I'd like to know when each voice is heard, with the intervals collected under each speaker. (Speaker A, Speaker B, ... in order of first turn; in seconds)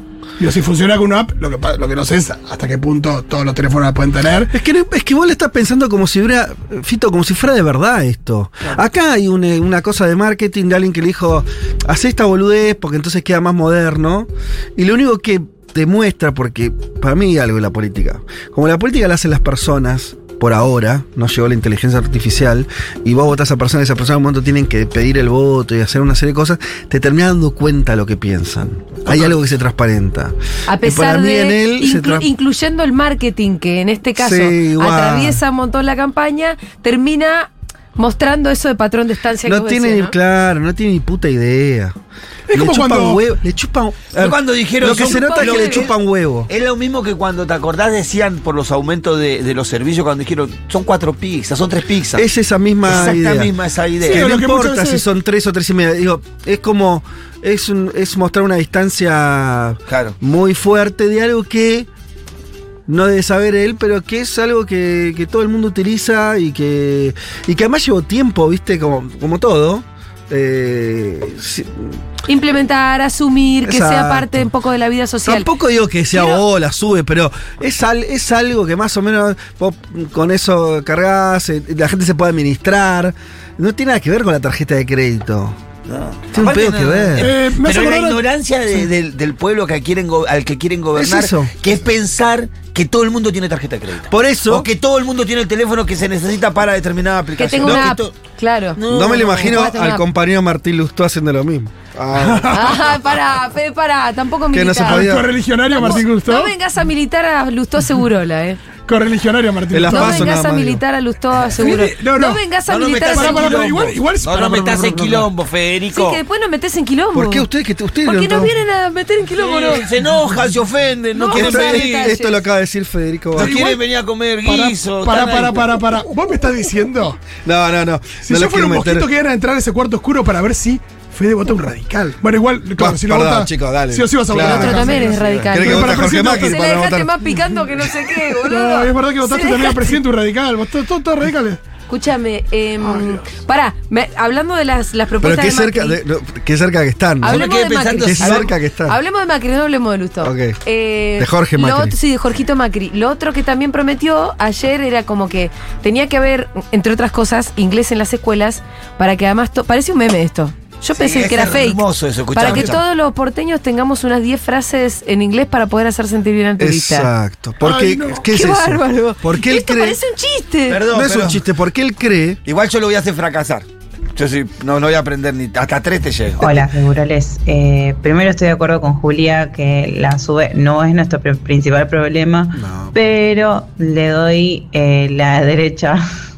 Speaker A: 0.4-4.5, 42.5-43.2, 54.0-55.0, 87.2-88.2, 102.2-102.9, 104.8-106.5, 108.8-110.3, 111.5-112.4, 113.1-115.3, 123.4-123.8, 124.4-127.2, 128.2-136.6, 138.3-141.6, 142.8-143.3, 167.6-168.2
Speaker B: 4.5-32.3, 34.2-35.4, 39.4-41.9, 42.5-46.5, 52.1-53.5, 54.1-61.9, 62.9-72.0, 73.6-74.5, 75.2-85.6, 86.3-87.3, 90.9-91.5, 94.1-94.7, 98.9-102.8, 104.5-105.3, 109.7-110.8, 117.1-118.5, 121.3-123.6, 127.4-129.1, 132.8-137.1, 145.2-147.5, 148.0-149.0, 150.2-150.6, 151.2-151.9, 166.6-170.0, 170.9-172.4, 182.5-182.9
Speaker C: 30.7-40.1, 45.0-45.9, 72.3-75.5, 76.1-76.4, 97.4-100.0, 102.5-105.0, 105.7-108.6, 109.9-113.7, 115.9-117.5, 118.0-119.9, 121.1-122.4, 134.4-140.0, 141.9-146.0, 147.2-161.8, 162.3-167.1, 168.3-170.8
Speaker D: 44.1-45.9, 46.5-52.2, 52.8-54.3, 59.9-60.1, 85.9-98.1, 98.8-99.6, 112.7-116.2, 119.4-122.1, 123.3-125.7, 147.3-148.5, 160.9-162.8, 170.7-171.4, 172.4-176.6
Speaker E: 176.4-186.0